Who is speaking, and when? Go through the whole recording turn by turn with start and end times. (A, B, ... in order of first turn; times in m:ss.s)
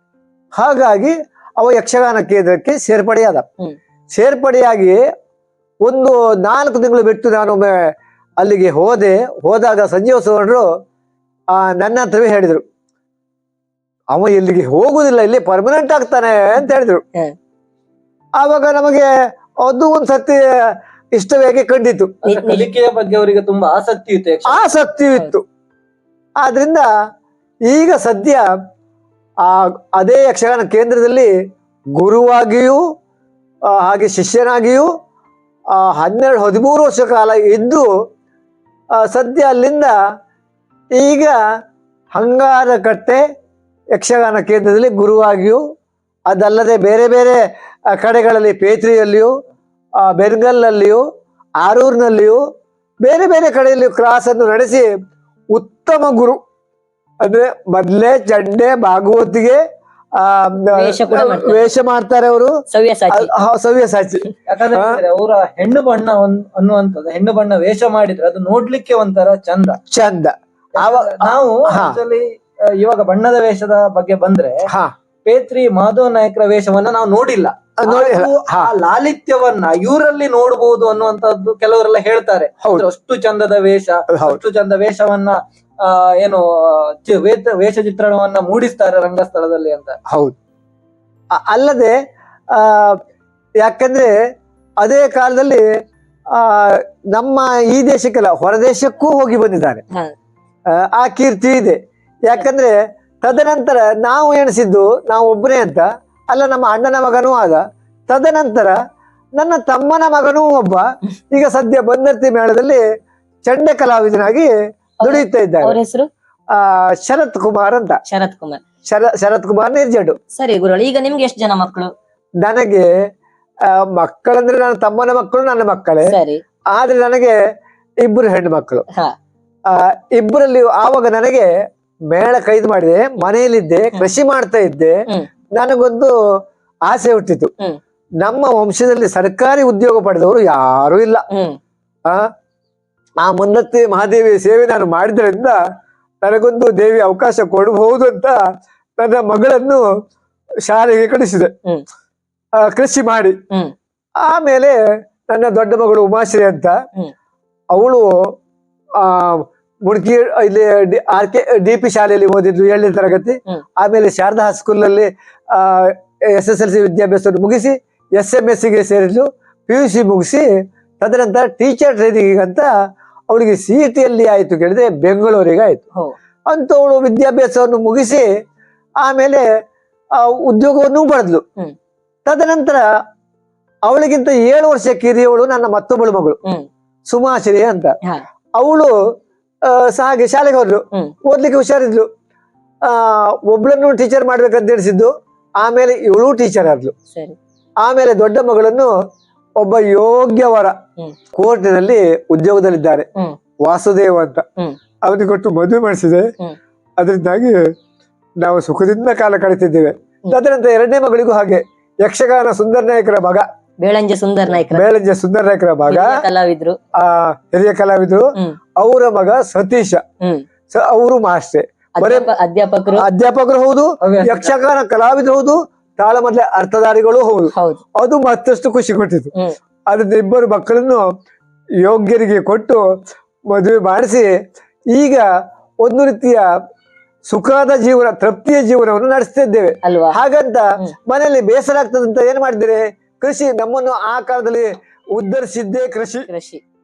0:00.6-0:03.4 A
0:04.1-0:05.0 A
0:05.8-0:07.8 A
0:08.4-0:10.7 A
0:11.5-0:12.6 A
0:14.1-0:17.0 A
0:18.4-0:22.2 A
0:22.2-0:22.7 B
0:22.3-0:24.8 C
0:24.5-0:25.4 A
0:26.4-0:26.9 A
0:27.7-0:28.5 A
0:29.4-0:31.3 A
0:32.0-0:32.8 A
0:33.7-0:34.9 A
0:35.7-0:37.9 A
0:39.0-0:40.0 A
0:41.0-0:41.4 A
0:42.1-0:43.2 A
0:43.9-0:45.6 A
0:46.3-0:49.3 A
0:50.0-0:51.0 A
0:51.6-0:52.4 A
0:53.0-0:54.9 A
0:55.5-0:56.4 A
0:57.2-0:59.6 A
1:00.2-1:02.5 A
1:00.7-1:01.7 B
1:02.7-1:03.3 B
1:03.1-1:05.0 A
1:04.5-1:09.8 C
1:09.9-1:12.0 A
1:10.8-1:14.7 C
1:15.3-1:30.0 C
1:17.8-1:18.7 A
1:24.1-1:24.4 A
1:30.1-1:30.3 A
1:31.3-1:32.0 A
1:32.5-1:33.0 A
1:33.6-1:34.1 A
1:34.8-1:35.6 A
1:36.3-1:39.8 A
1:40.7-1:48.8 A
1:49.4-1:52.8 A
1:53.4-1:55.8 A
1:55.0-1:56.1 B
1:56.5-1:58.0 A
1:58.1-1:58.6 B
1:58.9-2:00.2 A
2:00.4-2:01.9 B
2:02.4-2:02.9 A
2:03.6-2:06.1 A
2:06.1-2:06.4 B
2:06.7-2:07.4 A
2:08.0-2:08.8 A
2:09.7-2:11.5 A
2:12.1-2:15.0 A
2:15.6-2:16.1 A
2:16.9-2:17.5 A
2:18.2-2:21.3 A
2:21.3-2:21.6 B
2:23.2-2:25.6 A
2:26.2-2:28.4 A
2:29.0-2:29.8 A
2:30.7-2:31.5 A
2:32.6-2:33.4 A
2:34.2-2:36.8 A
2:37.7-2:38.2 A
2:39.0-2:50.5 A
2:51.0-2:52.7 A
2:53.3-2:55.8 A
2:56.5-2:58.3 A
2:59.0-2:59.5 A
3:00.2-3:01.4 A
3:02.3-3:02.8 A
3:03.9-3:06.4 A
3:07.1-3:08.0 A
3:08.6-3:08.9 A
3:09.7-3:12.1 A
3:12.8-3:16.9 A
3:17.8-3:18.9 A
3:19.6-3:20.7 A
3:21.3-3:23.1 A
3:23.6-3:24.4 A
3:25.0-3:26.3 A
3:27.0-3:27.6 A
3:28.4-3:33.4 A
3:33.8-3:34.8 B
3:34.7-3:36.2 A
3:35.9-3:36.8 B
3:37.0-3:40.0 A
3:40.7-3:42.3 A
3:42.0-3:43.1 B
3:43.0-3:49.3 A
3:44.0-3:44.5 C
3:47.5-3:47.8 B
3:49.9-3:51.0 A
3:51.8-3:52.8 A
3:53.5-3:54.3 A
3:54.9-3:55.2 A
3:55.8-3:56.5 A
3:57.3-4:06.3 A
3:59.8-4:00.2 B
4:06.3-4:06.6 B